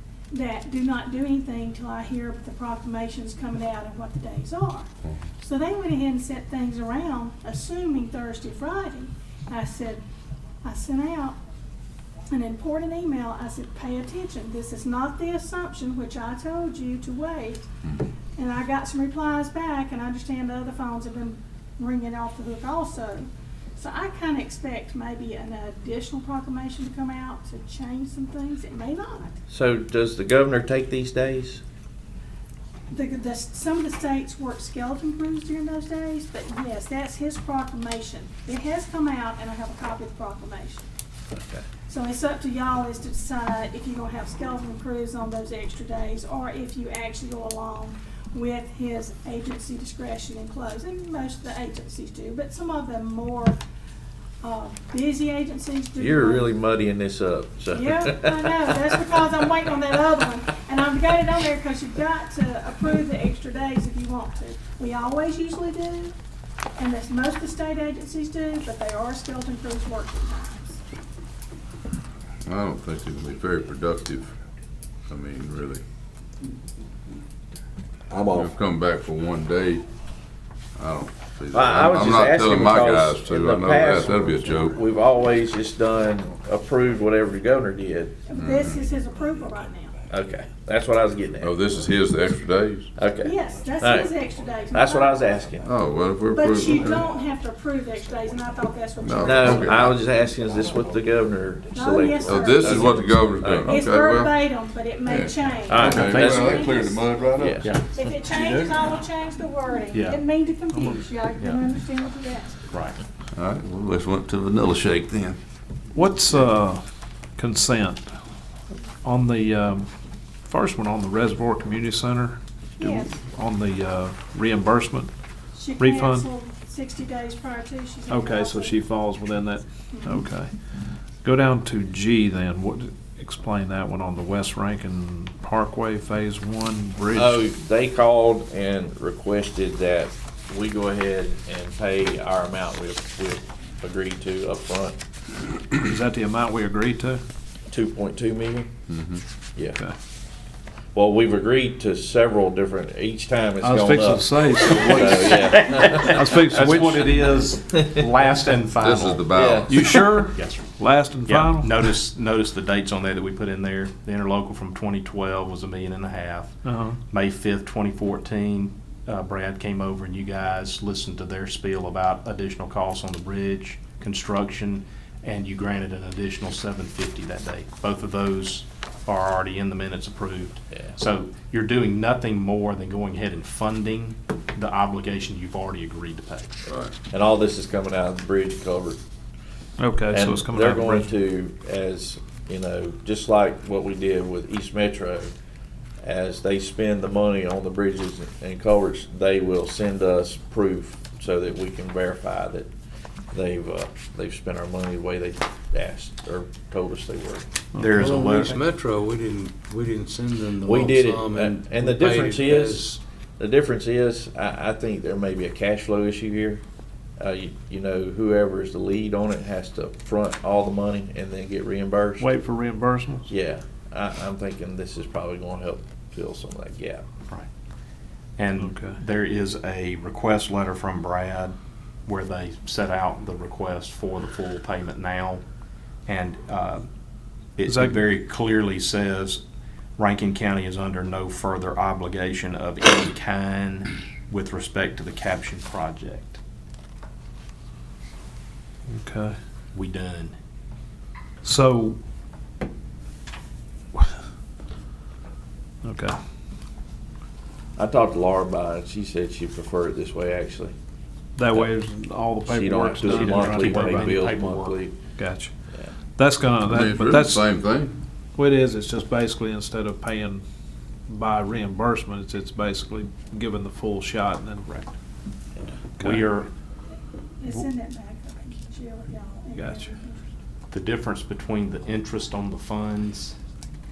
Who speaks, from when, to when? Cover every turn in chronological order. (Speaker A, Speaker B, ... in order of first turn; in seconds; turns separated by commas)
Speaker A: 0.3-10.0, Speaker A: 10.6-11.4, Speaker A: 12.3-17.6, Speaker A: 18.4-29.4, Speaker B: 29.5-31.6, Speaker A: 32.9-40.9, Speaker B: 41.3-41.6, Speaker A: 41.9-53.6, Speaker A: 54.4-56.5, Speaker B: 56.0-58.7, Speaker A: 57.7-66.1, Speaker A: 66.8-70.8, Speaker C: 72.4-74.3, Speaker C: 75.1-75.8, Speaker C: 78.3-79.9, Speaker C: 80.8-84.8, Speaker B: 81.5-88.2, Speaker A: 88.2-90.0, Speaker C: 88.3-88.8, Speaker B: 90.1-91.6, Speaker C: 91.4-92.9, Speaker B: 93.0-94.1, Speaker A: 93.2-95.5, Speaker B: 94.7-95.7, Speaker C: 95.6-97.1, Speaker A: 96.3-99.8, Speaker C: 99.0-100.0, Speaker B: 99.2-103.8, Speaker A: 101.7-112.7, Speaker C: 102.2-104.5, Speaker C: 105.0-107.7, Speaker B: 105.7-106.7, Speaker D: 105.8-106.3, Speaker B: 107.4-108.2, Speaker D: 107.6-107.9, Speaker D: 109.9-110.2, Speaker D: 112.7-113.0, Speaker C: 113.3-115.4, Speaker E: 115.9-116.8, Speaker E: 117.3-118.2, Speaker E: 119.0-119.9, Speaker E: 120.4-125.1, Speaker A: 122.8-123.2, Speaker A: 125.5-128.8, Speaker E: 125.8-126.2, Speaker E: 128.1-130.5, Speaker A: 129.9-130.3, Speaker E: 131.2-137.4, Speaker B: 137.1-145.0, Speaker E: 145.8-147.2, Speaker B: 147.7-148.7, Speaker C: 148.9-149.2, Speaker B: 150.9-156.6, Speaker E: 153.6-157.4, Speaker D: 155.4-159.3, Speaker B: 157.7-158.1, Speaker C: 158.8-159.9, Speaker B: 159.3-159.9, Speaker E: 159.7-161.9, Speaker D: 160.3-160.7, Speaker D: 161.3-166.5, Speaker E: 166.6-167.0, Speaker D: 167.1-186.5, Speaker C: 186.7-186.9, Speaker B: 187.1-189.0, Speaker E: 189.8-191.1, Speaker B: 190.1-195.3, Speaker B: 196.0-202.7, Speaker B: 203.3-207.5, Speaker E: 207.7-208.1, Speaker D: 207.8-208.7, Speaker F: 207.9-213.0, Speaker B: 210.6-216.6, Speaker B: 217.2-222.3, Speaker E: 222.2-223.3, Speaker B: 223.3-227.0, Speaker D: 228.4-231.5, Speaker E: 228.6-229.0, Speaker D: 232.1-235.4, Speaker D: 236.1-236.9, Speaker D: 237.6-239.4, Speaker E: 237.7-238.1, Speaker D: 240.0-246.4, Speaker E: 248.9-249.4, Speaker D: 249.7-250.3, Speaker E: 251.4-252.0, Speaker E: 255.8-256.2, Speaker B: 257.8-260.7, Speaker E: 261.4-264.4, Speaker B: 262.4-264.9, Speaker D: 263.0-264.8, Speaker E: 265.2-267.5, Speaker C: 266.6-268.0, Speaker E: 268.3-270.4, Speaker E: 271.1-274.9, Speaker E: 276.0-276.4, Speaker D: 276.0-276.5, Speaker A: 277.4-280.3, Speaker E: 279.5-279.9, Speaker D: 280.7-283.4